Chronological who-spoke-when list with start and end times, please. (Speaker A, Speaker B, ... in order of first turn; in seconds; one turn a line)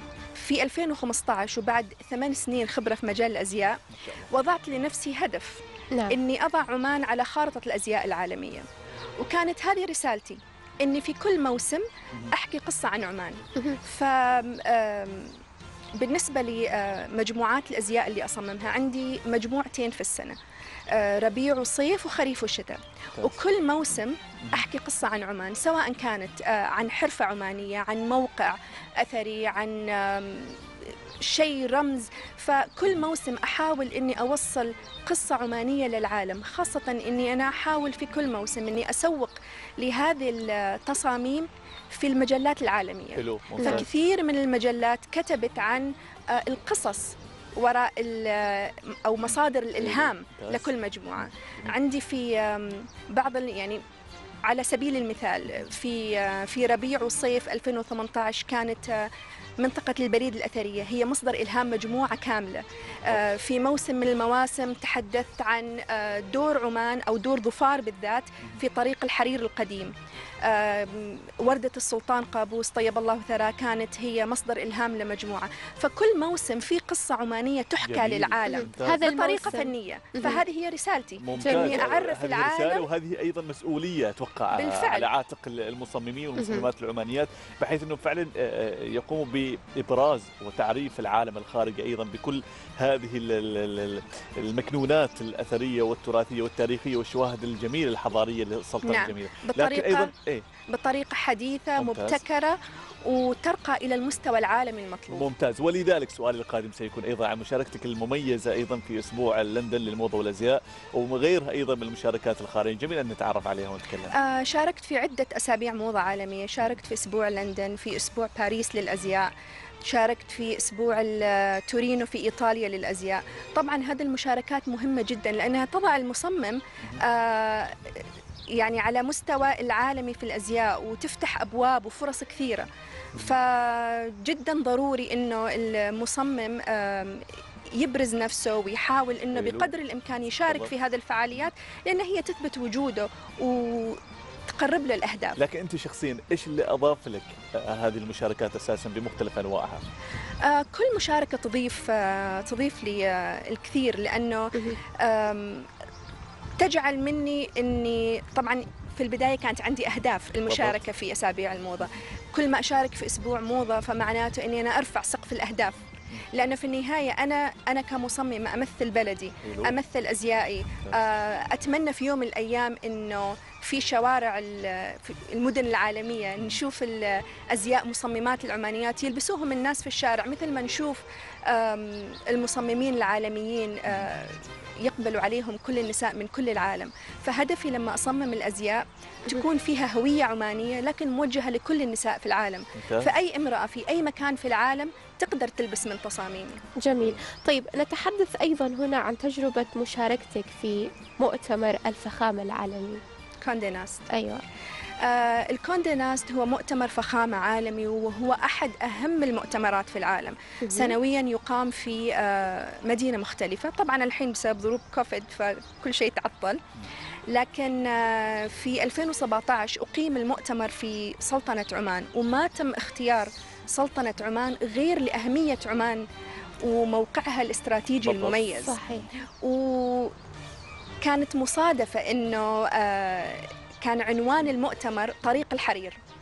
Speaker A: 0.4-8.7
Speaker B: 4.0-4.3
Speaker C: 5.9-6.2
Speaker A: 9.2-15.4
Speaker A: 16.0-20.4
Speaker A: 20.9-30.6
Speaker A: 31.2-53.8
Speaker B: 43.2-43.9
Speaker C: 43.6-43.9
Speaker B: 49.7-51.8
Speaker A: 54.5-69.9
Speaker A: 70.5-82.9
Speaker B: 77.8-79.0
Speaker C: 78.5-80.4
Speaker B: 81.2-100.5
Speaker C: 81.4-81.8
Speaker A: 84.5-85.1
Speaker C: 86.4-86.7
Speaker A: 98.8-100.1
Speaker A: 100.7-105.3
Speaker B: 101.8-102.2
Speaker B: 105.1-114.1
Speaker A: 114.1-119.3
Speaker A: 119.8-127.9
Speaker A: 128.5-145.4
Speaker B: 139.3-139.7
Speaker B: 145.4-149.9
Speaker A: 150.4-155.7
Speaker A: 156.6-196.6
Speaker B: 160.5-160.8
Speaker B: 169.4-169.8
Speaker B: 192.8-193.1
Speaker C: 196.8-203.0
Speaker A: 203.4-204.1
Speaker C: 204.1-204.4
Speaker A: 205.0-216.6
Speaker C: 210.6-211.0
Speaker A: 217.3-226.0
Speaker A: 226.6-228.8
Speaker B: 228.0-229.1
Speaker C: 228.5-229.1
Speaker A: 229.4-230.1
Speaker A: 231.0-236.0